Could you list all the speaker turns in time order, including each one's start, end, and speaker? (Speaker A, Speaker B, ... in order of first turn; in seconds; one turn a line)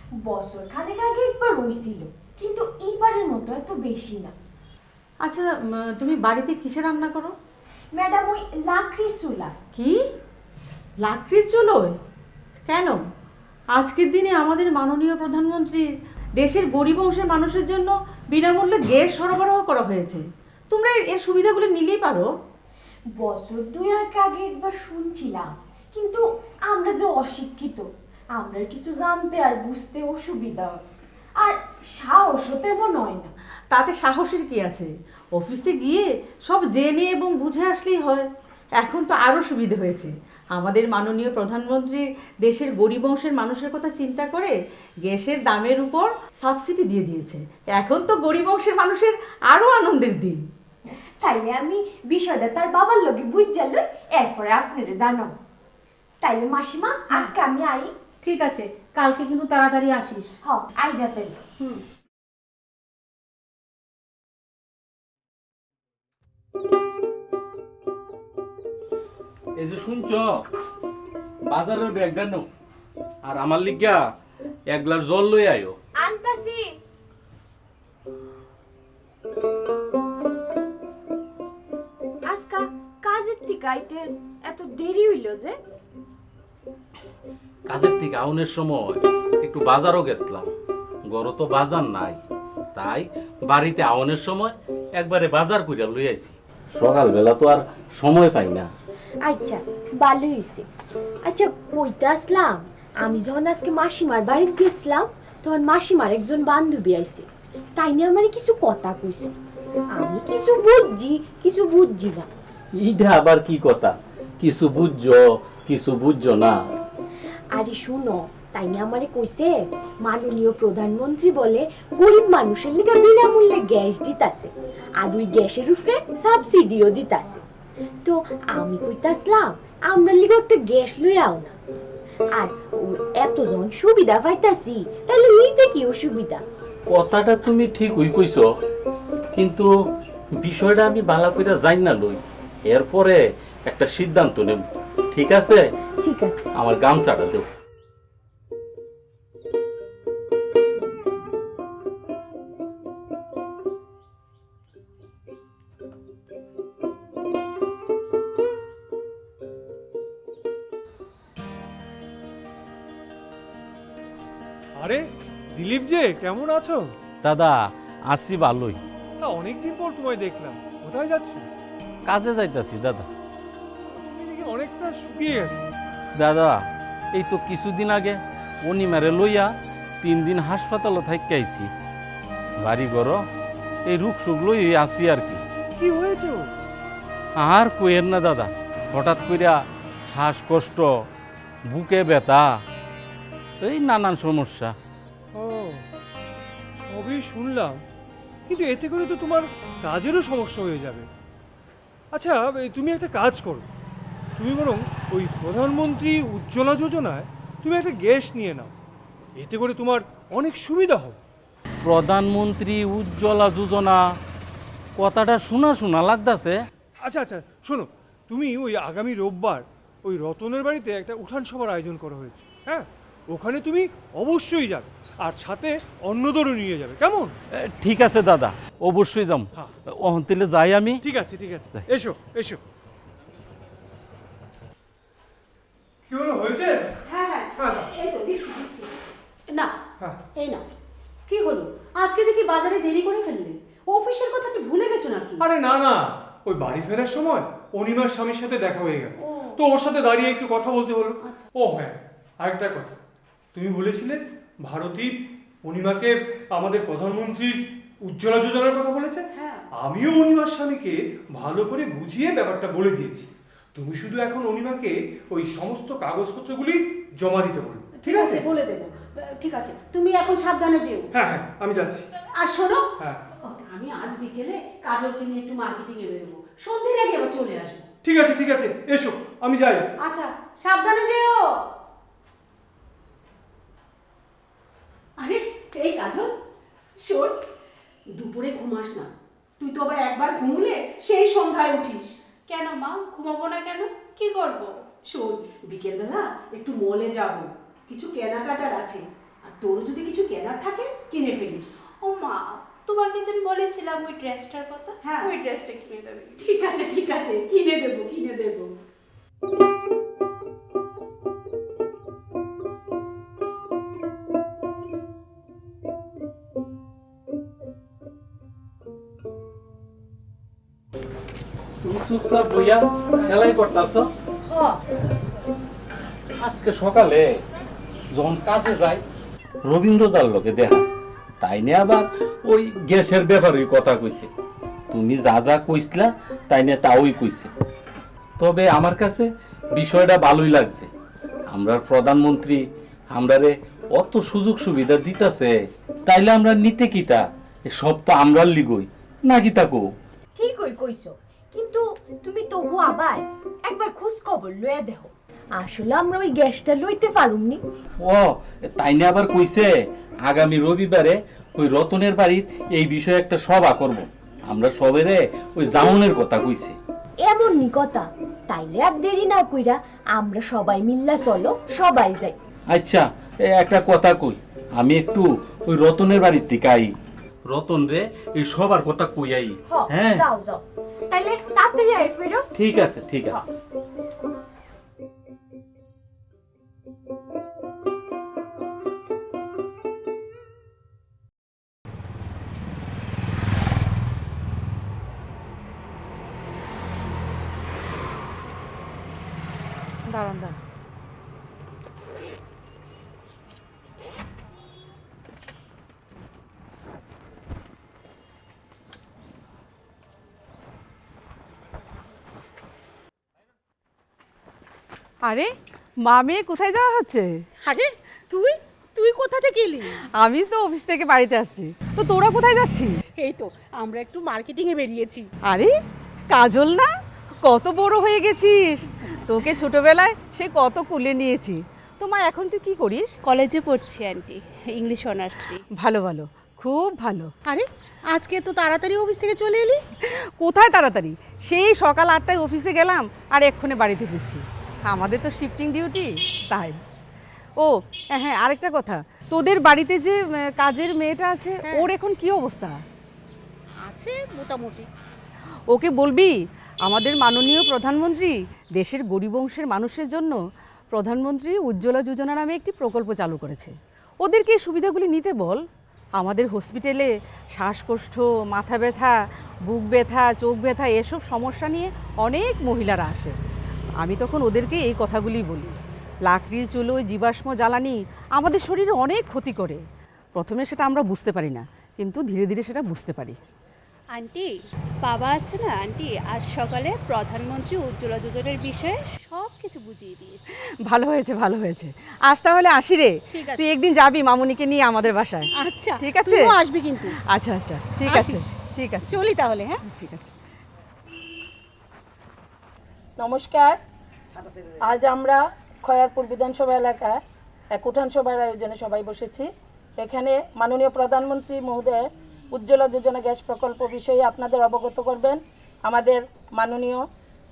Speaker A: 0.2-4.3
Speaker B: 5.2-7.3
Speaker A: 7.9-9.6
Speaker B: 11.0-11.9
Speaker B: 12.7-13.0
Speaker B: 13.8-15.8
Speaker B: 16.4-22.3
Speaker A: 23.1-30.8
Speaker A: 31.4-33.3
Speaker B: 33.7-38.3
Speaker B: 38.8-50.4
Speaker A: 51.2-55.3
Speaker A: 56.2-57.9
Speaker C: 58.2-60.3
Speaker A: 60.4-61.4
Speaker D: 69.6-70.4
Speaker D: 71.5-72.5
Speaker D: 73.2-74.0
Speaker D: 74.7-75.8
Speaker A: 76.0-76.7
Speaker A: 82.3-85.6
Speaker D: 87.7-90.5
Speaker D: 91.1-92.2
Speaker D: 92.7-98.7
Speaker A: 99.2-100.7
Speaker A: 101.2-109.3
Speaker A: 110.0-112.3
Speaker D: 112.8-116.6
Speaker A: 117.5-124.5
Speaker A: 125.0-127.4
Speaker A: 128.0-131.6
Speaker A: 132.3-136.4
Speaker D: 136.9-138.4
Speaker D: 139.3-139.7
Speaker D: 140.4-145.6
Speaker A: 146.0-146.4
Speaker D: 146.6-147.4
Speaker E: 165.5-166.8
Speaker D: 167.2-168.8
Speaker E: 169.2-171.4
Speaker D: 172.1-173.1
Speaker E: 173.9-175.7
Speaker D: 176.2-176.6
Speaker D: 177.1-181.7
Speaker D: 182.6-183.2
Speaker D: 183.9-185.4
Speaker E: 185.8-186.5
Speaker D: 187.4-190.9
Speaker D: 191.7-192.5
Speaker D: 193.6-194.7
Speaker E: 195.4-195.8
Speaker E: 196.9-197.8
Speaker E: 198.5-201.1
Speaker E: 202.1-203.6
Speaker E: 204.4-208.7
Speaker E: 209.4-211.2
Speaker D: 211.8-214.0
Speaker D: 215.0-216.6
Speaker E: 217.0-227.3
Speaker D: 227.5-231.0
Speaker E: 231.0-232.6
Speaker E: 236.1-236.8
Speaker C: 237.1-238.9
Speaker E: 237.6-237.9
Speaker C: 240.4-240.6
Speaker C: 241.3-245.4
Speaker E: 245.4-253.0
Speaker C: 249.2-249.6
Speaker C: 251.2-251.5
Speaker E: 253.5-268.4
Speaker C: 259.3-259.6
Speaker C: 267.9-271.1
Speaker E: 271.1-272.1
Speaker C: 272.4-272.9
Speaker E: 273.0-273.2
Speaker C: 273.4-277.9
Speaker E: 278.0-279.9
Speaker C: 280.0-281.4
Speaker C: 285.2-286.3
Speaker C: 287.0-287.4
Speaker C: 288.1-292.1
Speaker F: 292.5-294.8
Speaker C: 295.1-301.8
Speaker F: 302.0-306.6
Speaker C: 305.0-305.3
Speaker C: 306.4-308.7
Speaker D: 321.8-324.1
Speaker A: 324.4-324.8
Speaker D: 326.4-327.2
Speaker D: 328.1-329.0
Speaker D: 329.6-330.9
Speaker D: 331.4-334.3
Speaker D: 334.9-337.5
Speaker D: 338.4-340.9
Speaker D: 341.5-342.6
Speaker D: 343.1-345.5
Speaker D: 346.1-349.8
Speaker A: 350.4-357.6
Speaker D: 358.0-359.7
Speaker D: 360.3-366.8
Speaker A: 367.2-372.4
Speaker D: 372.7-376.9
Speaker D: 377.5-380.2
Speaker A: 379.7-383.4
Speaker D: 382.6-383.4
Speaker B: 400.1-400.6
Speaker B: 415.3-415.5
Speaker B: 416.1-417.3
Speaker C: 417.6-420.0
Speaker B: 420.2-423.0
Speaker C: 423.1-425.3
Speaker B: 425.5-425.8
Speaker B: 426.3-426.9
Speaker B: 427.4-433.1
Speaker F: 433.2-435.6
Speaker B: 435.8-437.3
Speaker C: 437.4-439.8
Speaker B: 440.1-446.8
Speaker B: 447.6-452.8
Speaker C: 453.8-454.9
Speaker B: 455.7-456.3
Speaker B: 456.9-460.4
Speaker B: 460.9-465.6
Speaker B: 466.2-473.3
Speaker B: 474.0-479.8
Speaker B: 480.4-483.4
Speaker F: 484.1-484.5
Speaker F: 485.0-490.5
Speaker B: 490.9-496.5
Speaker C: 493.3-493.7
Speaker C: 495.5-497.2
Speaker B: 497.3-499.1
Speaker C: 498.1-498.5
Speaker C: 499.0-499.8
Speaker B: 499.8-500.3
Speaker G: 503.2-503.8
Speaker G: 504.8-507.2
Speaker G: 507.7-517.1